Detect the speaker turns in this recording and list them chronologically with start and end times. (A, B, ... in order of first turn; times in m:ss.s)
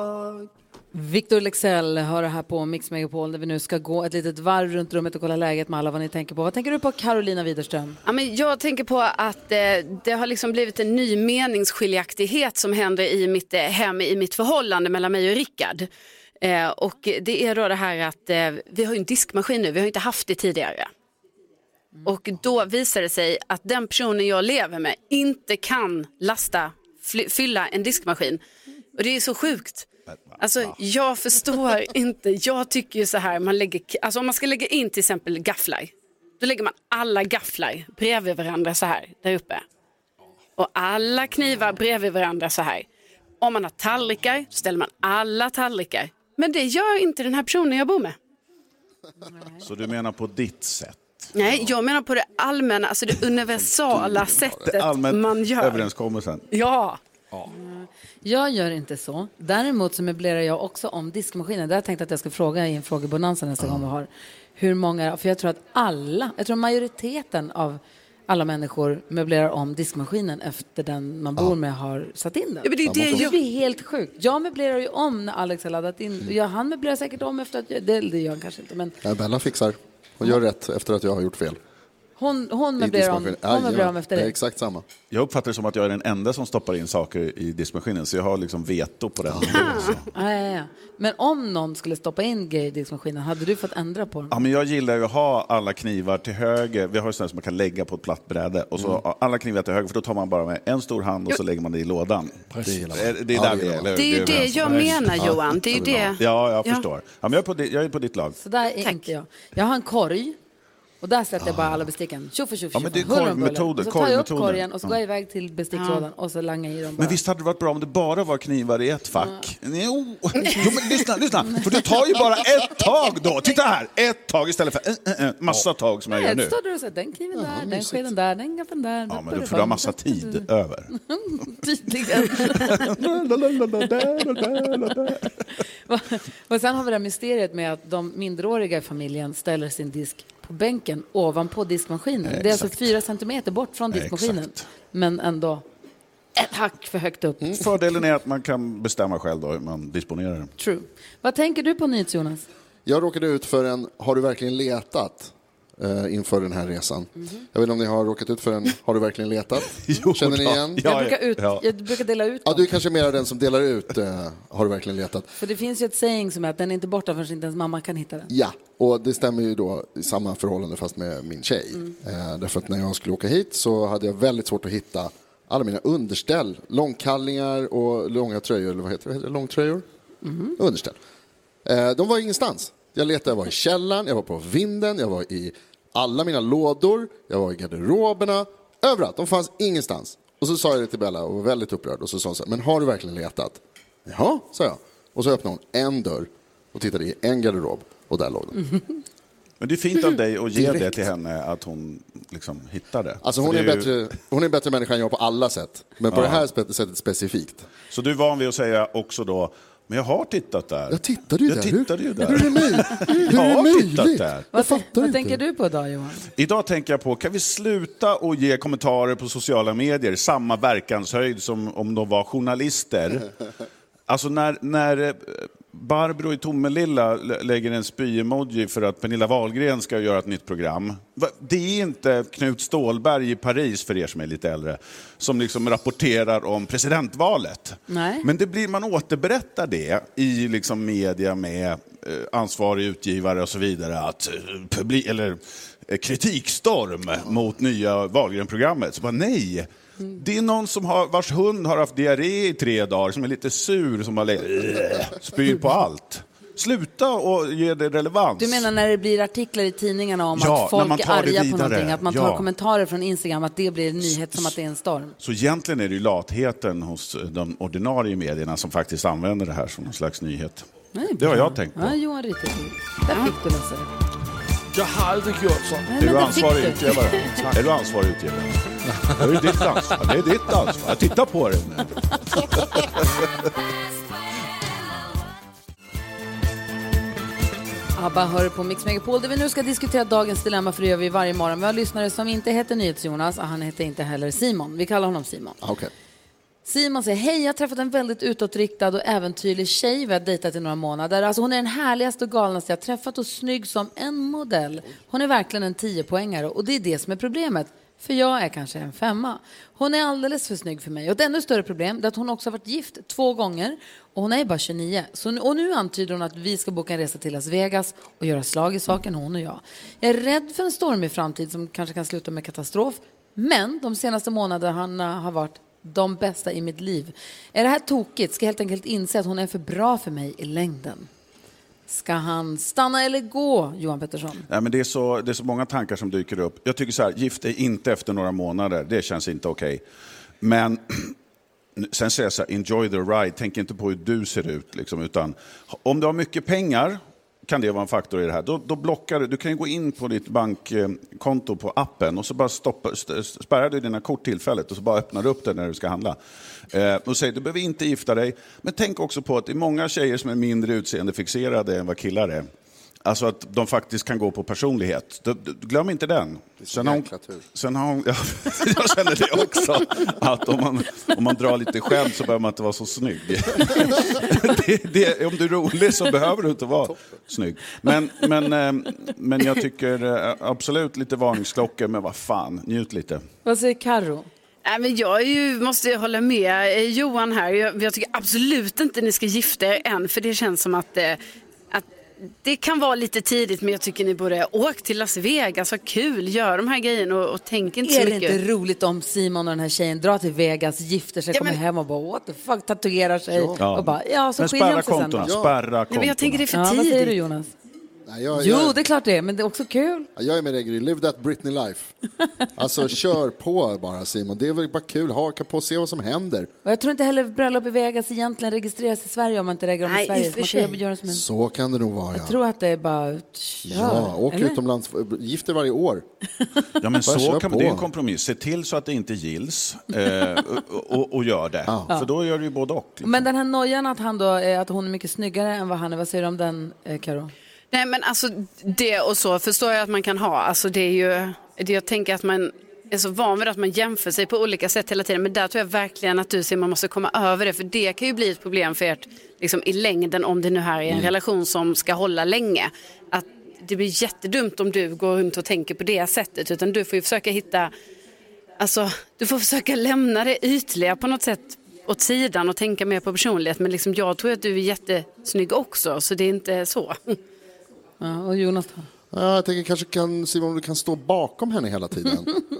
0:00.9-0:08.0 A
0:08.0-0:15.9 B
0:16.4-0:20.9 B
0:22.0-0:28.4 B
0:29.0-0:29.9 B
0:30.1-0:30.8 C
0:30.4-0:39.6 B
0:40.6-0:42.8 B
0:43.4-0:48.1 B
0:49.6-0:51.7 C
0:51.3-0:55.9 B
0:54.0-0:54.7 D
0:54.6-0:56.5 C
0:56.5-0:57.0 B
0:57.4-1:19.0 A
1:12.6-1:13.4 B
1:12.8-1:13.3 D
1:19.0-1:21.6 D
1:22.2-1:24.3 A
1:22.8-1:24.8 D
1:25.1-1:30.1 C
1:29.3-1:29.9 D
1:30.1-1:34.4 A
1:34.3-1:45.2 C
1:42.5-1:42.8 E
1:42.6-1:46.2 D
1:43.9-1:46.8 B
1:45.9-1:48.4 C
1:48.4-1:50.4 A
1:48.8-1:49.1 B
1:51.0-1:57.2 A
1:52.7-1:55.0 C
1:55.7-1:56.0 B
1:57.0-2:06.5 C
2:06.1-2:12.9 A
2:07.3-2:08.1 D
2:09.1-2:10.9 C
2:12.3-2:15.3 C
2:15.9-2:25.6 A
2:22.3-2:22.8 C
2:23.9-2:24.6 C
2:26.4-2:27.5 A
2:27.5-2:30.5 C
2:30.6-2:32.4 A
2:32.8-2:40.8 D
2:39.7-2:41.6 C
2:40.8-2:42.8 A
2:42.4-2:45.3 D
2:45.4-2:48.3 A
2:48.3-2:59.8 D
3:00.2-3:00.5 A
3:00.6-3:01.0 D
3:01.6-3:18.7 D
3:19.6-3:23.9 C
3:20.5-3:21.0 D
3:23.2-3:27.7 D
3:26.1-3:26.4 C
3:27.9-3:34.5 C
3:30.9-3:35.4 D
3:34.5-3:36.2 A
3:36.4-3:43.3 C
3:44.1-4:18.7 C
3:57.9-3:58.2 A
4:18.4-4:25.2 A
4:20.3-4:22.5 C
4:24.1-4:24.5 C
4:25.2-4:32.0 C
4:30.9-4:33.9 A
4:34.7-4:35.9 E
4:35.9-4:37.5 A
4:36.0-4:43.2 C
4:39.0-4:39.8 E
4:48.0-4:55.6 A
4:55.6-4:55.9 D
4:56.6-5:31.1 A
5:31.9-5:34.5 A
5:34.5-5:39.8 C
5:40.4-5:41.1 C
5:41.8-5:56.2 C
5:56.7-6:02.5 C
6:03.0-6:23.2 C
6:06.6-6:07.4 D
6:23.4-6:24.3 A
6:24.6-6:31.2 B
6:31.7-6:38.4 B
6:37.8-6:45.3 A
6:41.3-6:41.6 B
6:43.3-6:43.6 D
6:43.6-6:46.5 C
6:45.2-6:45.6 D
6:45.9-6:47.2 B
6:46.5-6:47.5 A
6:48.0-6:48.8 D
6:48.4-6:50.1 A
6:50.2-6:51.9 D
6:52.6-6:56.5 D
6:56.6-7:01.2 A
6:59.8-7:00.8 B
7:01.1-7:02.4 D
7:02.1-7:04.6 A
7:03.7-7:06.0 D
7:06.8-7:13.3 C
7:07.0-7:07.9 D
7:13.0-7:17.3 A
7:17.7-7:37.7 B
7:38.6-7:47.2 B
7:48.0-7:48.9 A
7:49.1-7:52.3 D